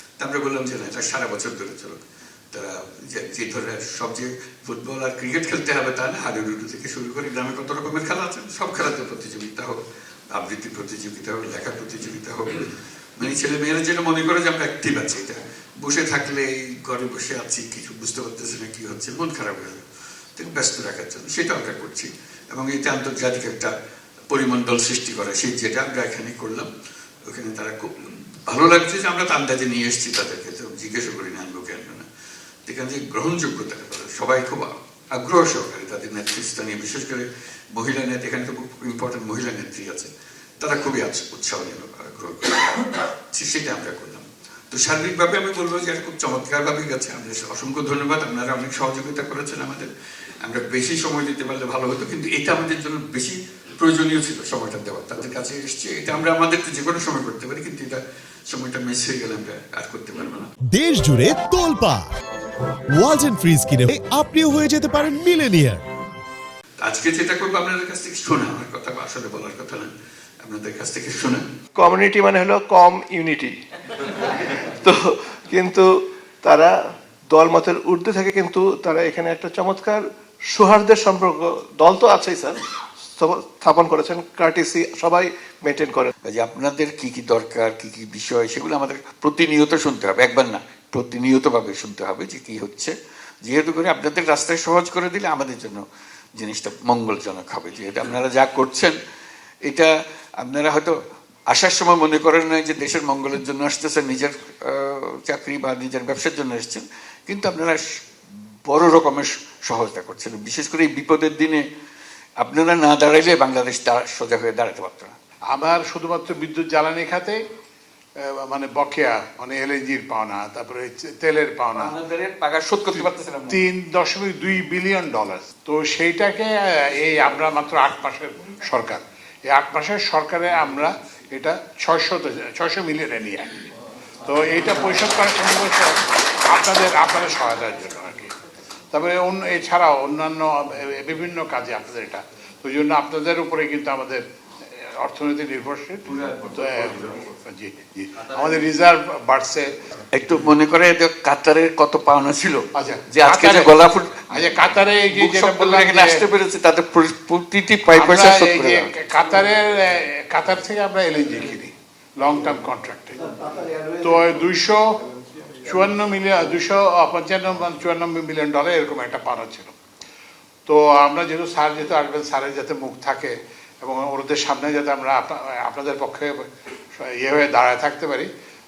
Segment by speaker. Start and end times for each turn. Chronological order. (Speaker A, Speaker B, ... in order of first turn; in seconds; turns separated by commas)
Speaker A: 0.2-2.0, Speaker A: 2.5-9.8, Speaker A: 10.3-19.8, Speaker A: 20.4-23.7, Speaker A: 24.3-26.7, Speaker A: 27.3-32.0, Speaker A: 32.7-49.9, Speaker A: 50.4-60.5, Speaker B: 60.7-62.1, Speaker B: 62.9-65.8, Speaker A: 66.8-69.9, Speaker A: 70.4-71.4, Speaker C: 71.8-75.9, Speaker C: 76.4-76.7, Speaker C: 77.3-82.6, Speaker C: 83.1-86.1, Speaker A: 86.2-92.9, Speaker A: 93.5-95.8, Speaker A: 96.4-99.0, Speaker A: 100.4-101.0, Speaker A: 101.5-107.8, Speaker A: 108.7-111.7, Speaker A: 112.4-115.1, Speaker D: 115.5-117.4, Speaker D: 118.2-122.0, Speaker A: 121.8-123.6, Speaker D: 123.5-133.7, Speaker D: 134.2-138.3, Speaker D: 138.9-144.2, Speaker D: 144.7-149.7, Speaker A: 150.1-154.5, Speaker D: 152.8-156.2, Speaker A: 155.1-158.9, Speaker D: 157.9-163.3, Speaker D: 164.0-165.0, Speaker D: 165.7-169.8, Speaker D: 170.7-176.4, Speaker D: 177.0-178.3